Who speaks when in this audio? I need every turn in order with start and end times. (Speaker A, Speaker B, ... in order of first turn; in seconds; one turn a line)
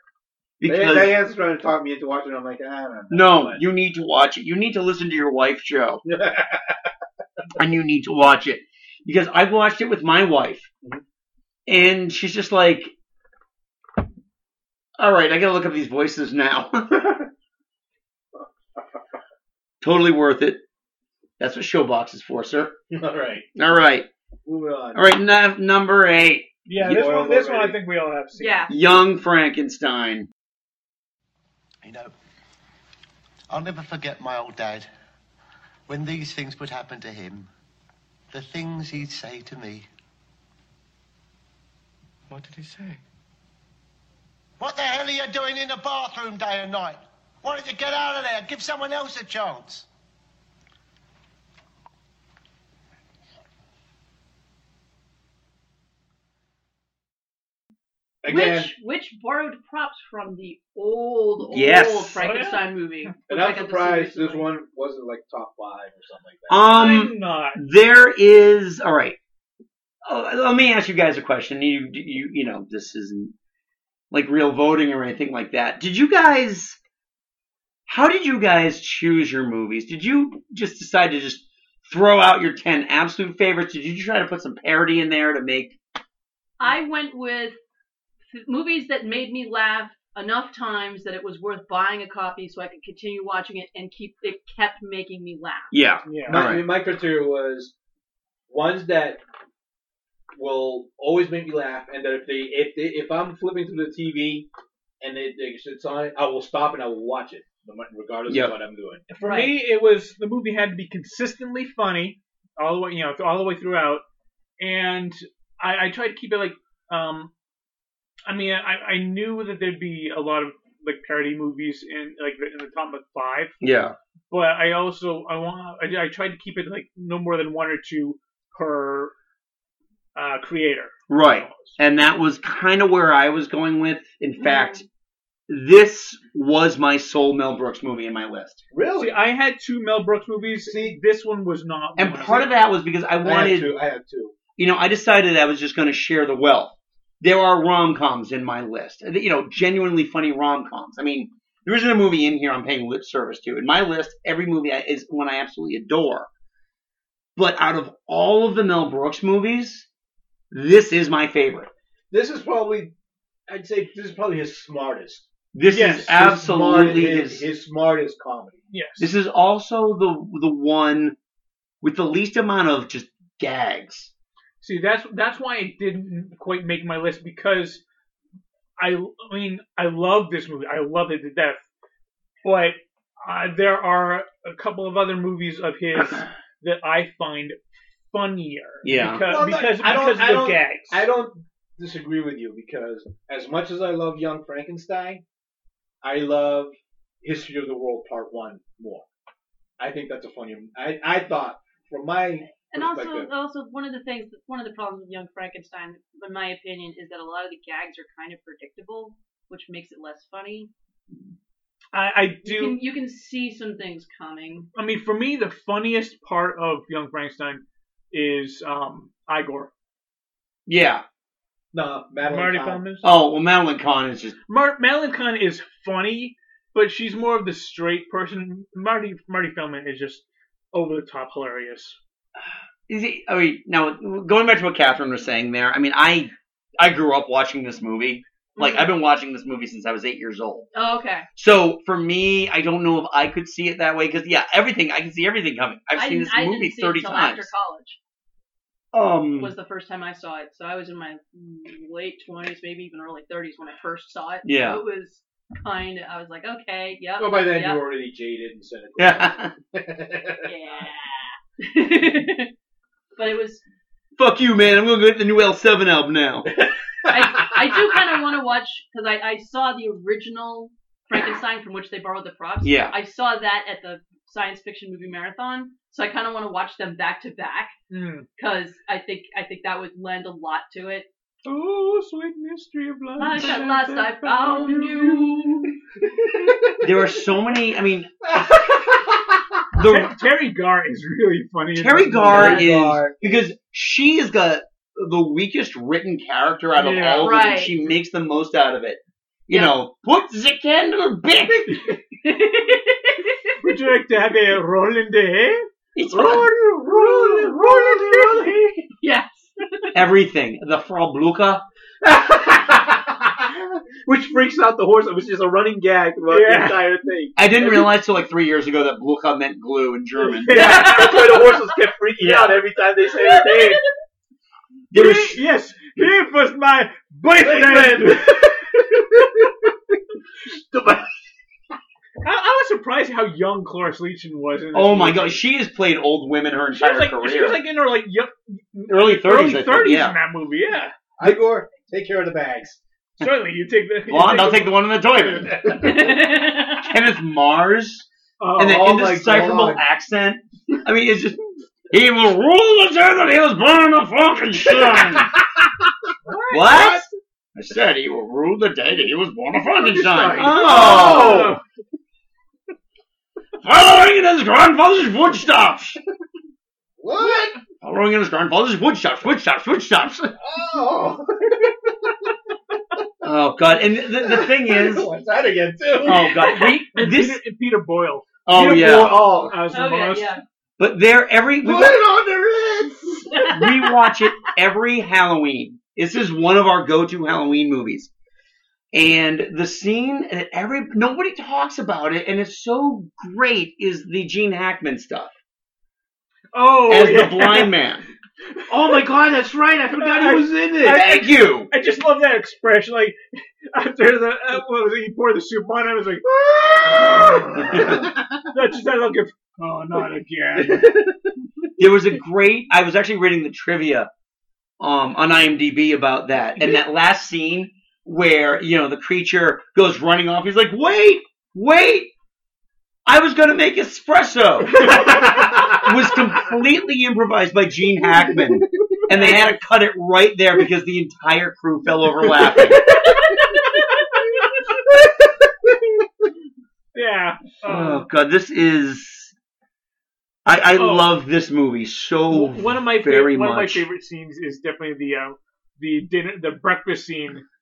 Speaker A: 0.6-1.2
Speaker B: 0.6-3.6
Speaker A: 3.1-6.0
Speaker B: 6.1-6.7
Speaker A: 7.6-10.7
Speaker A: 11.7-12.9
Speaker A: 15.0-17.0
Speaker A: 19.8-20.6
Speaker A: 21.4-22.8
Speaker B: 22.9-23.5
Speaker A: 23.6-24.1
Speaker B: 24.5-25.1
Speaker A: 24.9-27.1
Speaker C: 26.7-28.7
Speaker B: 26.8-27.8
Speaker D: 28.4-28.7
Speaker A: 28.7-30.3
Speaker E: 31.8-32.1
Speaker E: 33.5-34.9
Speaker E: 35.9-37.5
Speaker E: 38.3-39.9
Speaker E: 46.9-48.1
Speaker B: 58.2-58.7
Speaker D: 58.3-64.5
Speaker A: 61.5-62.2
Speaker C: 62.2-62.6
Speaker B: 63.3-66.8
Speaker A: 66.5-69.2
Speaker C: 66.6-67.6
Speaker A: 70.1-73.3
Speaker A: 74.1-76.8
Speaker A: 77.9-85.8
Speaker D: 86.6-87.6
Speaker D: 88.3-95.7
Speaker A: 95.7-96.6
Speaker C: 96.1-96.5
Speaker B: 96.3-97.7
Speaker B: 98.5-99.2
Speaker B: 100.3-104.5
Speaker B: 105.0-109.0
Speaker A: 108.3-108.5
Speaker C: 109.1-114.0
Speaker D: 109.2-109.6
Speaker C: 114.6-117.3
Speaker C: 118.3-123.6
Speaker A: 123.6-124.0
Speaker C: 124.3-129.1
Speaker C: 130.2-131.8
Speaker A: 131.1-134.8
Speaker D: 134.4-134.8
Speaker A: 135.5-138.6
Speaker B: 138.7-139.2
Speaker C: 139.0-142.5
Speaker B: 140.6-141.0
Speaker A: 142.0-143.7
Speaker B: 143.2-144.3
Speaker A: 144.6-156.3
Speaker A: 157.4-159.9
Speaker A: 160.5-161.7
Speaker B: 162.1-162.9
Speaker B: 163.5-165.3
Speaker A: 165.5-167.4
Speaker C: 165.7-166.1
Speaker B: 166.1-168.6
Speaker C: 168.7-169.1
Speaker A: 169.0-171.2
Speaker A: 171.8-174.1
Speaker C: 174.6-177.8
Speaker C: 178.8-181.6
Speaker C: 182.4-187.6
Speaker C: 188.1-191.1
Speaker A: 188.8-189.3
Speaker B: 189.3-195.2
Speaker B: 196.0-199.1
Speaker B: 199.8-203.3
Speaker D: 202.6-210.7
Speaker C: 211.9-212.8
Speaker D: 212.4-214.7
Speaker C: 214.8-219.7
Speaker A: 220.7-221.0
Speaker B: 221.7-222.8
Speaker C: 222.2-223.1
Speaker A: 223.0-224.3
Speaker C: 224.5-232.0
Speaker A: 232.9-240.7
Speaker D: 238.6-238.9
Speaker D: 240.7-241.3
Speaker A: 241.4-247.5
Speaker D: 245.9-248.0
Speaker A: 248.9-249.5
Speaker D: 249.4-257.8
Speaker A: 254.4-254.8
Speaker B: 257.2-260.5
Speaker A: 259.0-259.5
Speaker D: 260.4-262.5
Speaker D: 263.2-263.6
Speaker A: 264.2-266.5
Speaker B: 266.6-267.5
Speaker D: 267.1-277.8
Speaker A: 272.6-272.9
Speaker C: 277.9-278.3
Speaker D: 278.4-281.1
Speaker C: 281.4-285.7
Speaker D: 283.2-285.7
Speaker A: 286.8-288.1
Speaker A: 289.8-290.2
Speaker C: 289.8-292.8
Speaker A: 291.8-301.8
Speaker B: 292.2-293.5
Speaker C: 296.8-297.4
Speaker D: 297.2-297.7
Speaker D: 302.2-303.6
Speaker C: 303.6-308.7
Speaker A: 305.9-306.5
Speaker B: 306.4-308.5
Speaker D: 309.0-309.5
Speaker A: 309.9-311.6
Speaker B: 312.0-317.4
Speaker C: 316.3-316.8
Speaker A: 317.4-320.6
Speaker C: 320.4-321.4
Speaker B: 320.5-323.8
Speaker C: 322.2-322.5
Speaker A: 324.9-325.4
Speaker C: 324.9-328.5
Speaker B: 327.4-329.5
Speaker B: 330.5-331.1
Speaker C: 332.2-335.4
Speaker A: 334.7-337.6
Speaker C: 336.8-341.4
Speaker A: 338.9-340.2
Speaker B: 341.2-342.8
Speaker C: 343.2-344.8
Speaker A: 344.1-345.6
Speaker B: 345.6-346.0
Speaker D: 345.8-346.9
Speaker A: 346.7-348.1
Speaker C: 348.4-348.8
Speaker A: 348.6-351.4
Speaker B: 348.6-349.8
Speaker A: 351.9-355.3
Speaker C: 356.3-357.0
Speaker A: 356.5-361.6
Speaker B: 359.8-361.6
Speaker C: 360.0-361.6
Speaker A: 363.6-366.0
Speaker B: 367.0-367.6
Speaker A: 367.8-370.3
Speaker B: 370.4-372.1
Speaker A: 373.2-375.1
Speaker B: 374.2-376.5
Speaker A: 376.0-377.4
Speaker C: 376.6-380.3
Speaker A: 378.5-379.4
Speaker B: 378.6-379.5
Speaker D: 379.7-380.4
Speaker A: 380.8-382.0
Speaker B: 381.6-383.3
Speaker D: 383.3-383.8
Speaker A: 383.5-388.1
Speaker A: 388.9-395.3
Speaker C: 396.5-397.7
Speaker A: 396.9-398.0
Speaker C: 398.5-399.0
Speaker B: 398.7-401.1
Speaker C: 400.0-403.2
Speaker A: 400.9-401.7
Speaker C: 403.7-411.0
Speaker B: 406.5-408.2
Speaker A: 407.6-408.0
Speaker A: 411.8-414.1
Speaker A: 414.8-422.1
Speaker A: 423.1-432.8
Speaker B: 424.8-425.8
Speaker C: 429.1-429.6
Speaker B: 434.9-435.8
Speaker C: 436.9-438.1
Speaker A: 437.6-439.3
Speaker A: 440.5-443.9
Speaker C: 440.8-441.1
Speaker C: 442.3-447.4